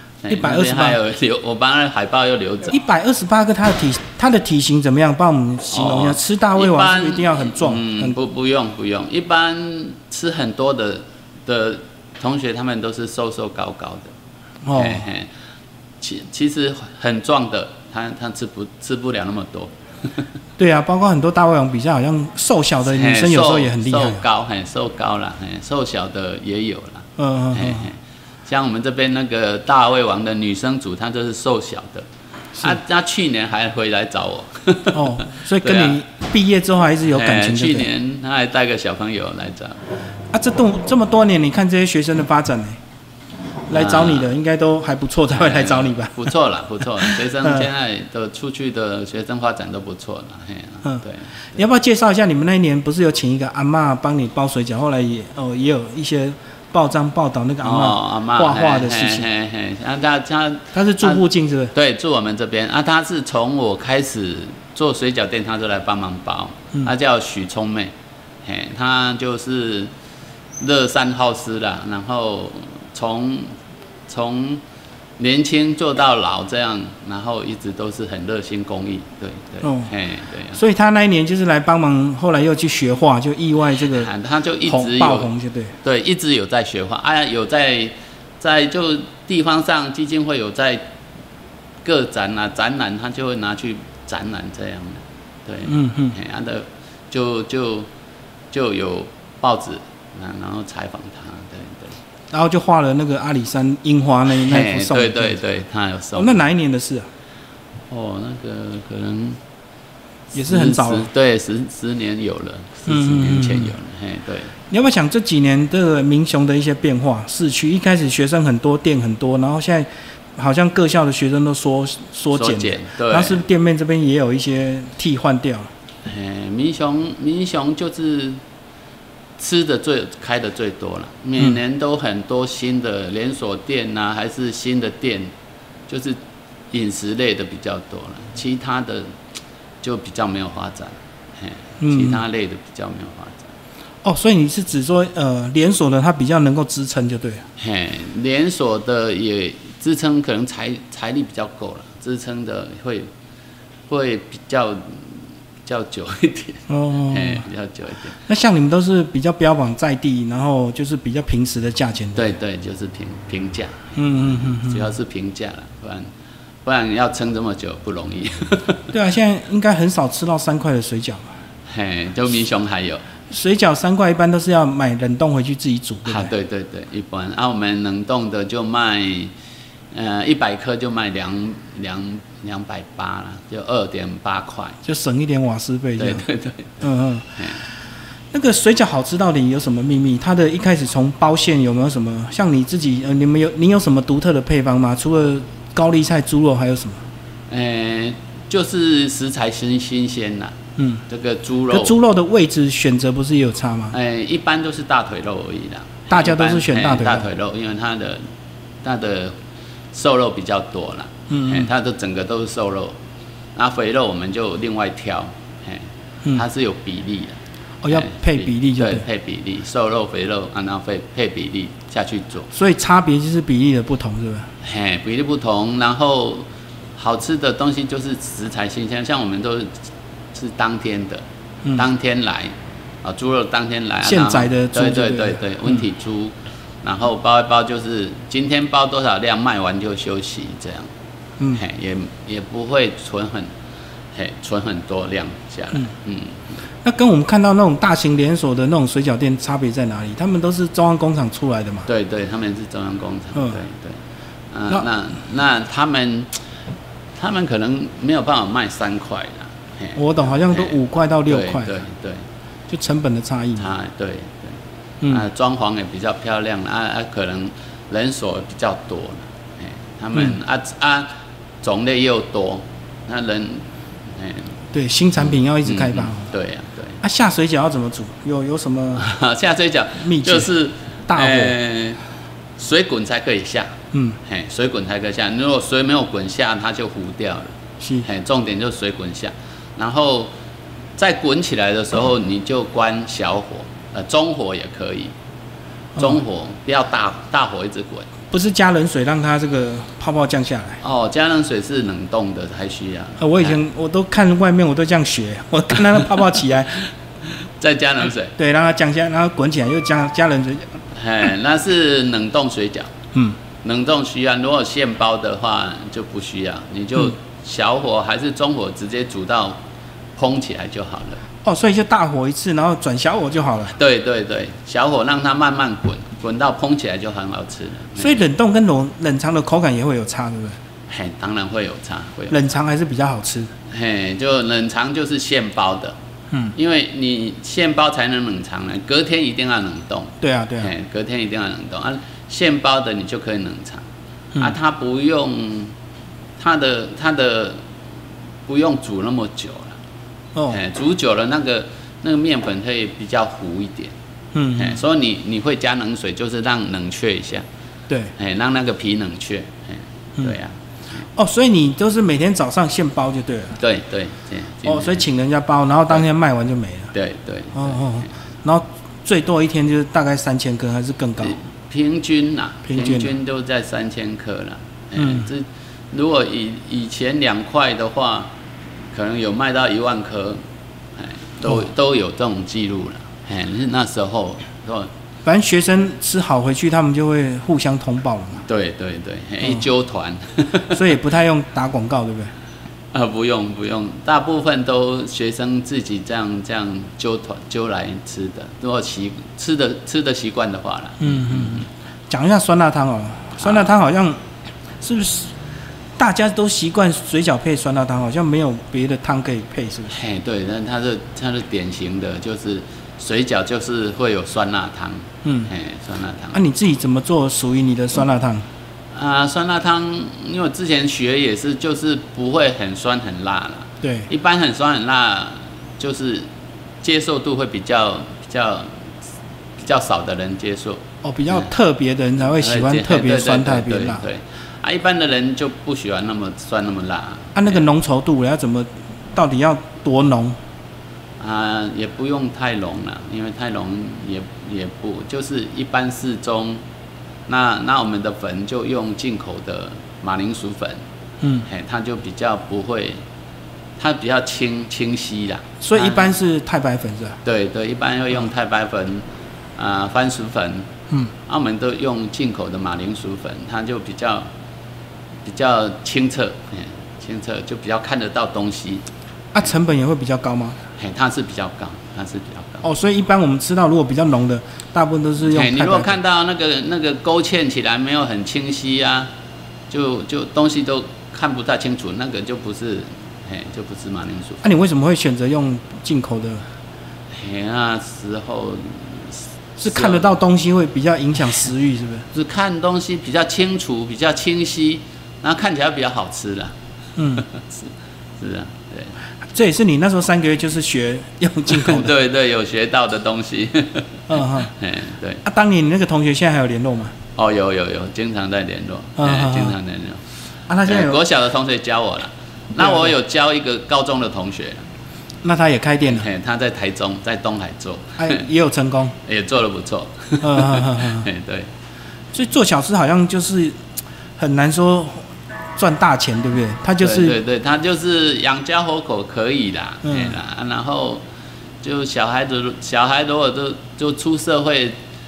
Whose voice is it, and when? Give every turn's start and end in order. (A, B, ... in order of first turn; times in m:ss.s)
0:00.2-0:02.8 A
0:00.3-0:01.0 B
0:02.7-0:08.2 B
0:05.7-0:14.1 A
0:14.6-0:15.0 B
0:14.7-0:15.3 A
0:16.0-0:19.7 A
0:20.6-0:24.2 B
0:22.8-0:32.1 A
0:27.2-0:27.9 B
0:32.6-0:36.0 A
0:34.9-0:37.9 B
0:37.1-0:39.8 A
0:40.3-0:42.8 B
0:43.7-0:46.3 B
0:43.7-0:44.3 A
0:45.3-0:51.4 A
0:47.0-0:47.7 B
0:51.6-0:59.3 B
0:57.6-1:07.9 A
1:00.7-1:01.7 B
1:08.4-1:09.9 A
1:10.6-1:13.6 A
1:14.1-1:14.6 A
1:15.2-1:20.6 A
1:19.6-1:19.9 B
1:20.5-1:24.1 B
1:23.9-1:25.3 A
1:24.6-1:25.8 B
1:25.8-1:30.8 A
1:31.8-1:37.9 A
1:35.7-1:36.2 B
1:38.5-1:42.0 A
1:42.3-1:45.4 B
1:44.3-1:46.4 A
1:46.2-1:47.1 B
1:47.9-1:49.4 A
1:50.3-1:51.1 B
1:50.4-1:54.5 A
1:52.9-1:53.7 B
1:54.7-2:05.7 B
2:02.3-2:03.4 A
2:06.0-2:08.4 A
2:09.4-2:15.3 A
2:15.9-2:16.2 A
2:16.7-2:19.1 A
2:19.8-2:23.5 A
2:21.8-2:22.2 B
2:24.0-2:27.5 B
2:27.6-2:33.1 A
2:33.9-2:35.1 A
2:35.6-2:38.2 A
2:36.7-2:37.4 B
2:38.3-2:42.3 B
2:42.2-2:46.1 A
2:44.0-2:44.9 B
2:46.6-2:48.9 A
2:48.9-2:51.3 B
2:51.7-2:53.0 A
2:53.3-2:56.3 B
2:56.1-2:59.3 A
2:59.9-3:04.8 A
3:04.8-3:06.2 B
3:06.0-3:06.8 A
3:06.8-3:07.3 B
3:08.3-3:17.0 B
3:17.5-3:20.6 A
3:20.8-3:21.0 B
3:21.1-3:22.0 A
3:21.7-3:24.0 B
3:23.9-3:28.2 A
3:26.1-3:27.3 B
3:28.8-3:29.4 A
3:29.9-3:33.0 A
3:31.3-3:31.7 B
3:33.6-3:37.4 A
3:37.8-3:39.0 B
3:37.9-3:42.5 A
3:42.5-3:44.5 B
3:44.6-4:00.9 A
3:54.0-3:55.4 B
4:01.5-4:03.5 A
4:04.2-4:06.4 A
4:06.8-4:11.9 B
4:11.9-4:14.0 A
4:14.5-4:16.3 A
4:17.2-4:22.2 A
4:20.0-4:21.7 B
4:22.7-4:23.7 B
4:23.6-4:24.6 A
4:25.1-4:31.1 A
4:31.6-4:34.5 A
4:34.7-4:36.3 B
4:35.6-4:37.0 A
4:37.0-4:39.1 B
4:39.0-4:42.0 A
4:40.0-4:40.5 B
4:41.1-4:41.6 B
4:42.6-4:50.3 A
4:43.9-4:44.2 B
4:47.8-4:48.1 B
4:51.0-4:55.1 A
4:56.0-4:58.1 A
4:58.3-5:00.8 B
5:00.8-5:03.6 A
5:03.2-5:06.9 B
5:07.3-5:08.3 A
5:08.4-5:10.8 B
5:11.0-5:12.9 A
5:13.6-5:19.6 A
5:20.2-5:21.2 A
5:21.4-5:23.8 B
5:23.8-5:28.2 A
5:28.0-5:30.6 B
5:30.9-5:32.4 A
5:32.3-5:33.5 B
5:33.7-5:36.0 A
5:36.5-5:43.8 A
5:40.2-5:40.7 B
5:44.4-5:45.7 A
5:46.4-5:47.6 A
5:48.5-5:49.8 A
5:50.4-5:50.6 B
5:50.5-5:53.9 A
5:54.3-5:54.8 B
5:54.6-5:57.4 A
5:58.2-6:01.1 A
6:01.2-6:03.6 B
6:03.6-6:05.0 A
6:04.6-6:06.9 B
6:06.9-6:08.1 A
6:07.6-6:11.4 B
6:11.2-6:18.3 A
6:12.7-6:13.1 B
6:15.0-6:15.3 B
6:18.9-6:20.4 A
6:21.0-6:24.9 A
6:25.2-6:28.4 B
6:28.5-6:30.8 A
6:30.7-6:32.3 B
6:32.9-6:41.7 A
6:41.0-6:44.2 B
6:43.4-6:43.7 A
6:44.8-6:45.3 B
6:46.0-6:49.9 B
6:49.9-6:56.4 A
6:55.2-6:55.5 B
6:56.3-6:58.5 B
6:58.9-7:06.3 A
7:03.8-7:04.1 B
7:06.8-7:08.8 A
7:09.6-7:11.4 A
7:11.0-7:14.0 B
7:12.4-7:17.6 A
7:17.4-7:20.4 B
7:21.2-7:26.6 A
7:27.3-7:30.8 A
7:31.2-7:31.5 B
7:31.5-7:33.0 A
7:33.8-7:36.1 A
7:35.6-7:37.2 B
7:37.2-7:39.0 A
7:39.6-7:40.7 A
7:41.3-7:44.3 A
7:45.2-7:48.8 A
7:49.3-7:50.6 B
7:50.8-7:52.7 A
7:52.6-7:56.0 B
7:55.2-7:59.1 A
7:59.7-8:04.4 A
8:04.4-8:06.5 B
8:07.1-8:10.1 A
8:09.6-8:12.1 B
8:12.1-8:16.6 A
8:17.0-8:17.3 B
8:17.1-8:18.9 A
8:19.3-8:21.9 B
8:21.5-8:24.0 A
8:24.1-8:24.5 B
8:24.6-8:25.2 A
8:25.2-8:27.0 B
8:27.2-8:30.0 A
8:29.0-8:29.6 B
8:30.5-8:31.0 B
8:30.6-8:34.6 A
8:32.6-8:32.9 B
8:35.2-8:36.1 B
8:35.9-8:38.2 A
8:38.0-8:39.0 B
8:39.0-8:41.5 A
8:40.2-8:41.1 B
8:42.1-8:43.6 B
8:44.2-8:47.2 B
8:46.8-8:51.0 A
8:49.8-8:50.2 B
8:51.6-8:54.7 A